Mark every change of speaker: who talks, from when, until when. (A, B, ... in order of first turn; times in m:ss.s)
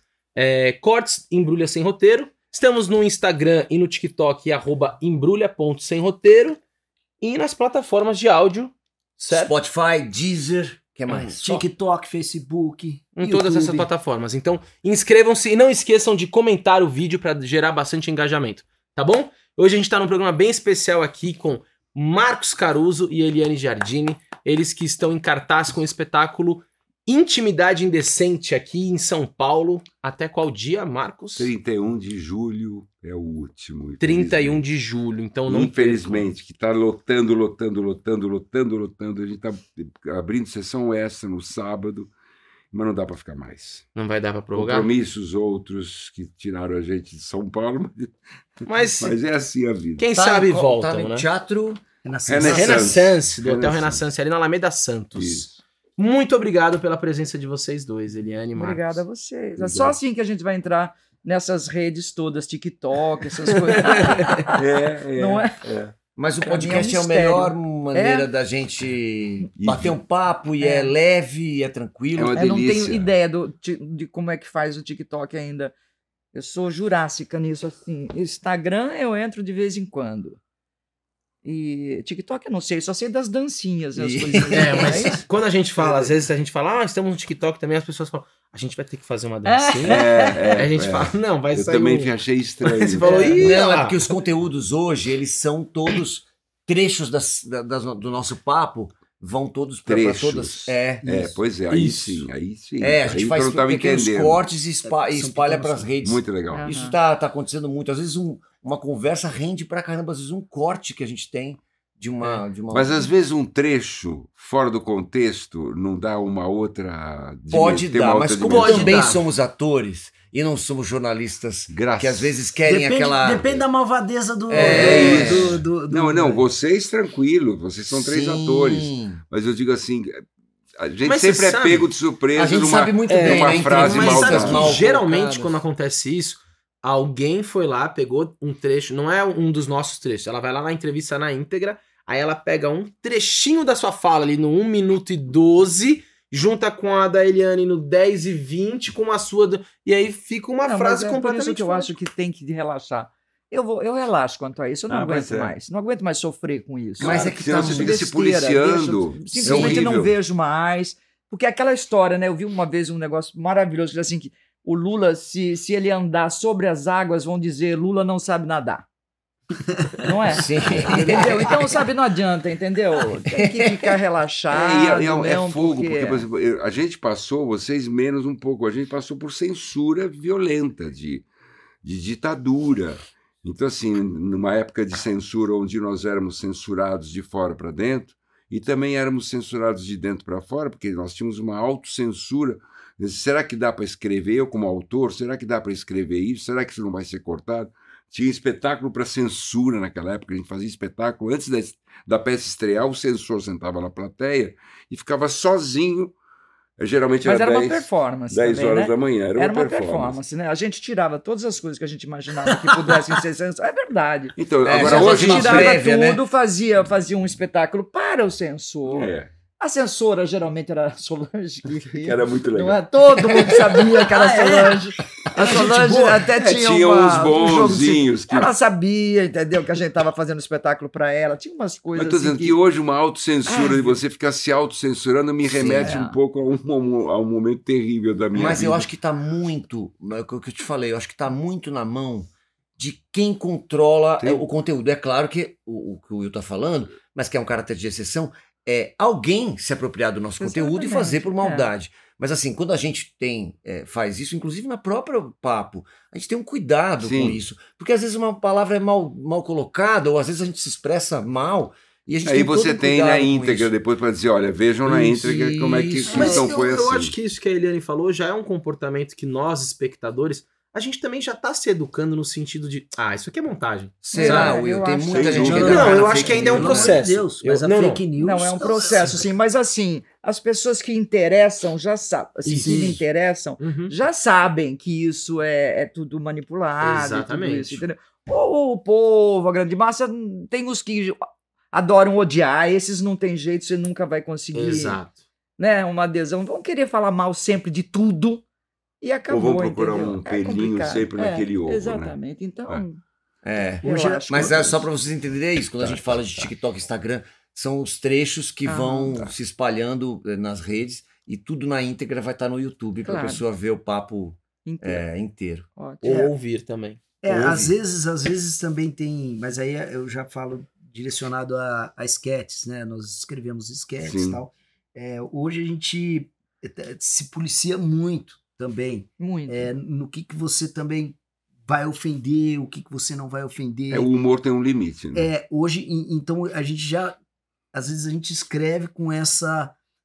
0:00.4-0:06.6 A
0:07.2-0:09.5 A
0:09.3-0:11.7 B
0:11.3-0:13.9 C
0:13.2-0:31.5 A
0:31.4-0:34.6 D
0:34.0-0:36.3 A
0:35.5-0:42.1 D
0:42.7-0:43.9 D
0:43.9-0:44.9 A
0:44.5-0:50.1 D
0:48.6-0:49.1 A
0:50.0-0:51.2 A
0:50.1-0:51.8 B
0:52.0-0:53.0 C
0:52.3-0:54.0 D
0:52.4-0:59.0 A
0:55.2-0:55.5 D
0:58.6-1:04.6 E
0:59.6-1:00.0 D
1:04.5-1:05.9 D
1:05.1-1:05.6 E
1:06.2-1:12.5 B
1:06.4-1:08.3 E
1:09.6-1:10.0 D
1:10.6-1:10.9 E
1:12.2-1:13.1 D
1:12.3-1:15.7 E
1:16.3-1:20.4 E
1:21.4-1:25.2 E
1:24.0-1:25.2 B
1:24.5-1:34.0 A
1:25.8-1:26.1 C
1:29.4-1:30.5 E
1:29.8-1:33.3 D
1:33.0-1:33.4 E
1:33.4-1:41.0 B
1:39.8-1:44.4 D
1:41.0-1:41.4 C
1:41.7-1:42.3 A
1:42.8-1:53.1 B
1:44.8-1:46.0 C
1:46.0-1:46.9 D
1:46.5-1:47.0 E
1:52.7-1:59.2 D
1:57.5-2:03.6 B
1:58.4-1:59.2 A
2:01.7-2:02.3 D
2:02.6-2:06.4 C
2:04.5-2:05.6 B
2:04.5-2:10.2 D
2:07.9-2:09.2 B
2:10.8-2:14.8 D
2:11.0-2:11.9 A
2:12.3-2:14.9 B
2:13.1-2:31.9 A
2:14.5-2:15.6 E
2:30.6-2:48.8 E
2:34.9-2:35.6 D
2:37.0-2:40.1 D
2:37.0-2:38.0 B
2:39.4-2:39.8 B
2:50.0-2:56.2 E
2:50.3-2:51.7 B
2:53.3-2:53.9 B
2:54.5-3:01.3 D
3:01.8-3:26.1 D
3:26.8-3:30.2 D
3:27.2-3:52.6 E
3:34.4-3:35.8 D
3:34.6-3:36.2 B
3:38.8-3:39.3 D
3:41.9-3:43.4 D
3:43.7-3:46.2 C
3:46.3-3:48.5 D
3:51.9-3:58.9 D
3:53.4-3:54.0 E
3:55.4-3:56.0 B
3:55.8-3:56.2 E
3:58.3-4:23.7 B
4:10.4-4:11.7 E
4:17.0-4:17.4 D
4:22.2-4:27.2 D
4:24.8-4:26.3 B
4:26.0-4:26.9 C
4:26.0-4:34.6 A
4:34.0-4:37.0 B
4:34.1-4:36.6 E
4:35.1-4:36.8 D
4:35.2-4:39.2 C
4:35.6-4:38.0 A
4:38.2-4:55.0 E
4:42.4-4:42.9 A
4:42.5-4:43.0 C
4:43.6-4:43.9 A
4:46.8-4:47.8 A
4:54.5-4:55.2 A
4:55.6-4:58.4 E
4:59.0-5:03.0 E
4:59.3-5:02.8 D
5:03.4-5:15.7 B
5:03.8-5:04.9 E
5:03.8-5:04.7 C
5:05.8-5:06.5 D
5:08.7-5:09.2 E
5:13.0-5:13.4 E
5:14.6-5:15.0 E
5:15.8-5:16.2 E
5:16.0-5:17.0 A
5:16.0-5:16.3 C
5:17.2-5:34.1 C
5:17.3-5:17.7 D
5:24.0-5:24.4 D
5:29.2-5:29.7 E
5:33.9-5:35.3 D
5:35.1-5:37.2 C
5:37.7-5:39.8 C